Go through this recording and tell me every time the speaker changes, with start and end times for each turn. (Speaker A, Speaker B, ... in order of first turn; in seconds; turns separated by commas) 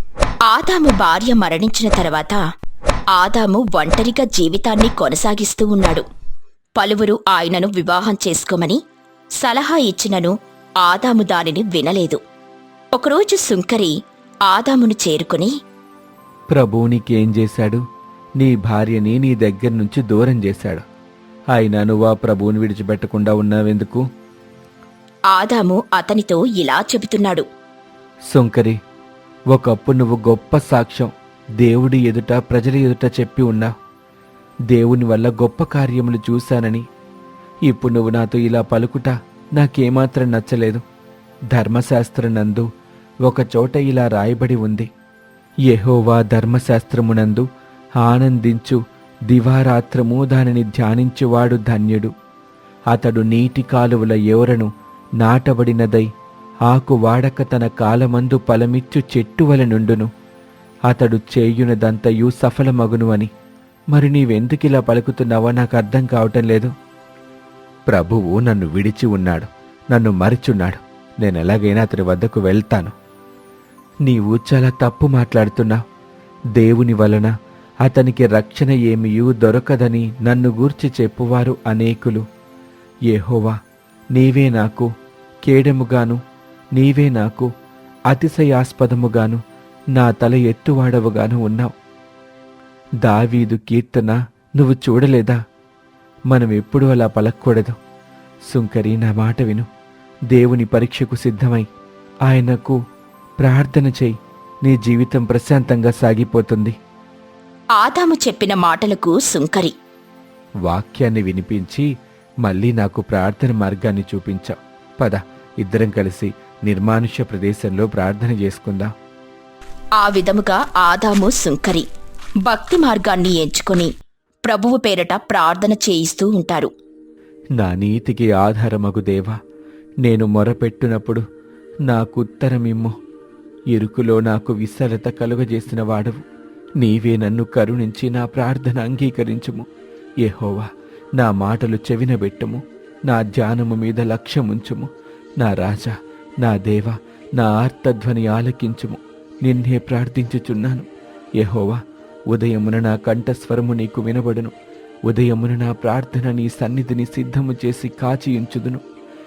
Speaker A: 0.5-2.4, Speaker A: 3.1-6.0, Speaker A: 6.8-8.8, Speaker A: 9.4-12.2, Speaker A: 12.9-13.9, Speaker A: 14.4-15.5, Speaker B: 16.5-17.8, Speaker B: 18.4-20.8, Speaker B: 21.5-24.0, Speaker A: 25.3-27.4, Speaker B: 28.3-28.8, Speaker B: 29.5-33.7, Speaker B: 34.7-36.8, Speaker B: 37.6-40.8, Speaker B: 41.5-42.7, Speaker B: 43.3-44.9, Speaker B: 45.7-47.5, Speaker B: 48.0-52.1, Speaker B: 52.9-56.1, Speaker B: 56.7-60.1, Speaker B: 60.9-63.3, Speaker B: 63.9-66.7, Speaker B: 67.9-72.9, Speaker B: 74.0-75.8, Speaker B: 76.5-77.3, Speaker B: 77.8-82.2, Speaker B: 83.1-83.5, Speaker B: 84.1-84.9, Speaker B: 85.4-86.2, Speaker B: 86.8-87.5, Speaker B: 88.1-89.4, Speaker B: 89.9-91.7, Speaker B: 93.0-95.4, Speaker B: 96.3-97.8, Speaker B: 98.5-99.7, Speaker B: 100.3-101.7, Speaker B: 102.3-102.8, Speaker B: 103.4-106.8, Speaker A: 107.8-109.7, Speaker B: 110.6-111.9, Speaker B: 112.4-118.9, Speaker A: 120.0-121.8, Speaker A: 122.5-123.9, Speaker A: 124.5-126.7, Speaker B: 127.6-129.4, Speaker B: 130.0-131.2, Speaker B: 131.9-132.9, Speaker B: 133.7-136.2, Speaker B: 136.8-139.7, Speaker B: 140.2-144.9, Speaker B: 145.4-150.9, Speaker B: 151.4-154.5, Speaker B: 155.1-158.8